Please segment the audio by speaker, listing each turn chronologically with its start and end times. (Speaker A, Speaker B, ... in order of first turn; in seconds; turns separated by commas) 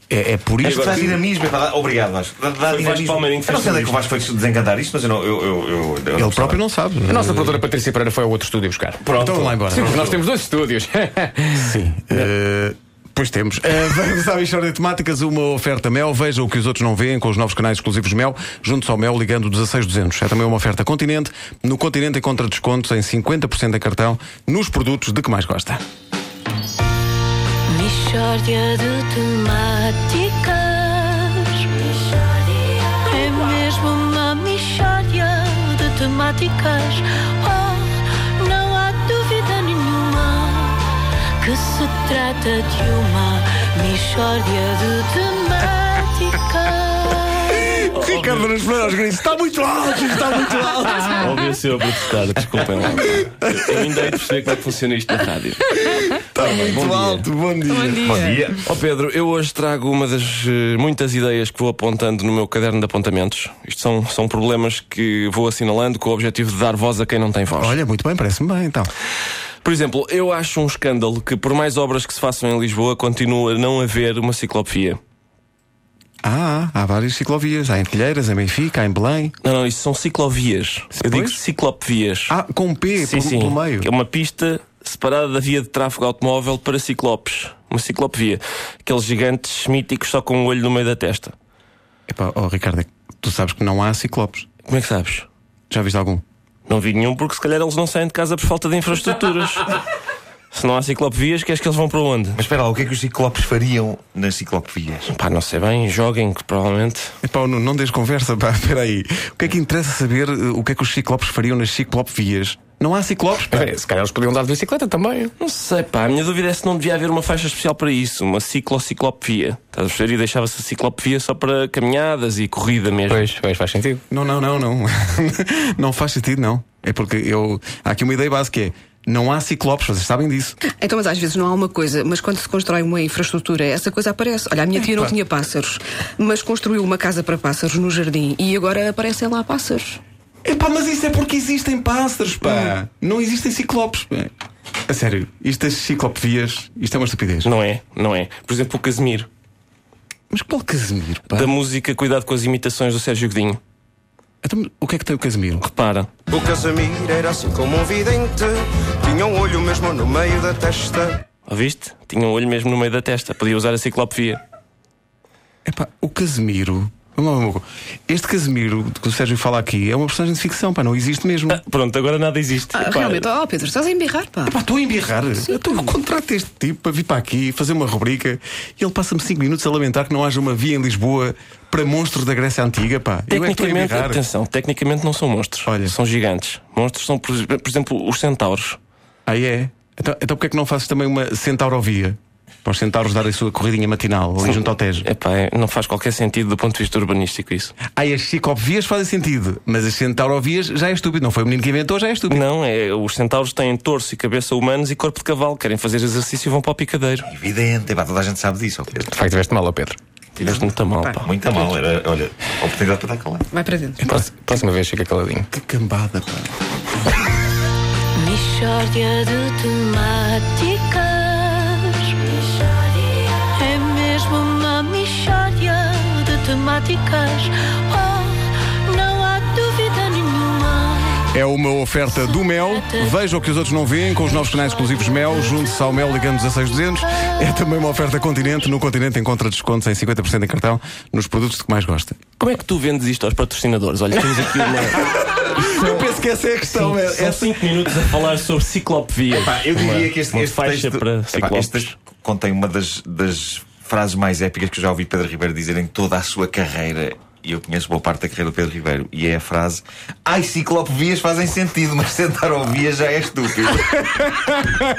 Speaker A: 0.1-1.2, Speaker B: 0.6-1.1, Speaker C: 0.8-6.6, Speaker B: 2.6-4.1, Speaker A: 6.2-7.5, Speaker D: 7.1-12.2, Speaker B: 9.0-10.1, Speaker A: 9.1-10.1, Speaker A: 11.6-25.8, Speaker E: 27.6-47.6, Speaker A: 47.5-51.3, Speaker B: 47.9-48.5, Speaker B: 51.1-57.3, Speaker A: 53.0-54.1, Speaker A: 55.8-58.4, Speaker C: 57.8-58.6, Speaker B: 58.6-67.8, Speaker A: 67.6-68.9, Speaker B: 69.6-75.0, Speaker A: 76.2-79.3, Speaker B: 79.4-82.3, Speaker A: 80.9-81.4, Speaker A: 82.3-83.9, Speaker B: 83.0-91.3, Speaker A: 92.1-94.5, Speaker B: 94.7-95.3, Speaker A: 95.7-96.2, Speaker B: 96.7-99.7, Speaker B: 100.5-102.4, Speaker C: 102.3-105.1, Speaker B: 105.1-107.1, Speaker A: 107.2-113.7, Speaker D: 113.5-115.3, Speaker B: 115.4-123.3, Speaker D: 123.1-124.0, Speaker A: 124.1-130.6, Speaker F: 130.7-140.0, Speaker A: 134.7-135.1, Speaker A: 140.4-144.3, Speaker F: 142.5-142.7, Speaker A: 144.9-147.5, Speaker B: 147.4-149.3, Speaker A: 150.3-151.5, Speaker B: 151.3-153.6, Speaker A: 154.4-155.7, Speaker B: 155.6-156.1, Speaker G: 156.3-161.2, Speaker B: 161.5-164.4, Speaker A: 165.6-171.6, Speaker B: 171.5-173.2, Speaker F: 172.7-174.6, Speaker A: 174.5-184.2, Speaker B: 183.3-188.8, Speaker A: 185.7-185.9, Speaker A: 189.2-195.1, Speaker B: 194.4-197.8, Speaker A: 197.9-202.4, Speaker B: 202.3-207.3, Speaker C: 207.3-209.0, Speaker D: 209.0-210.0, Speaker B: 210.3-211.3, Speaker C: 211.2-213.5, Speaker F: 213.5-214.1, Speaker A: 214.0-214.5, Speaker D: 214.2-215.5, Speaker A: 215.5-216.6, Speaker E: 218.1-231.3, Speaker A: 231.3-242.2, Speaker E: 232.2-233.1, Speaker E: 234.2-234.9, Speaker B: 242.4-246.1, Speaker A: 244.6-244.9, Speaker A: 245.5-247.5, Speaker B: 246.7-251.9, Speaker C: 249.4-264.0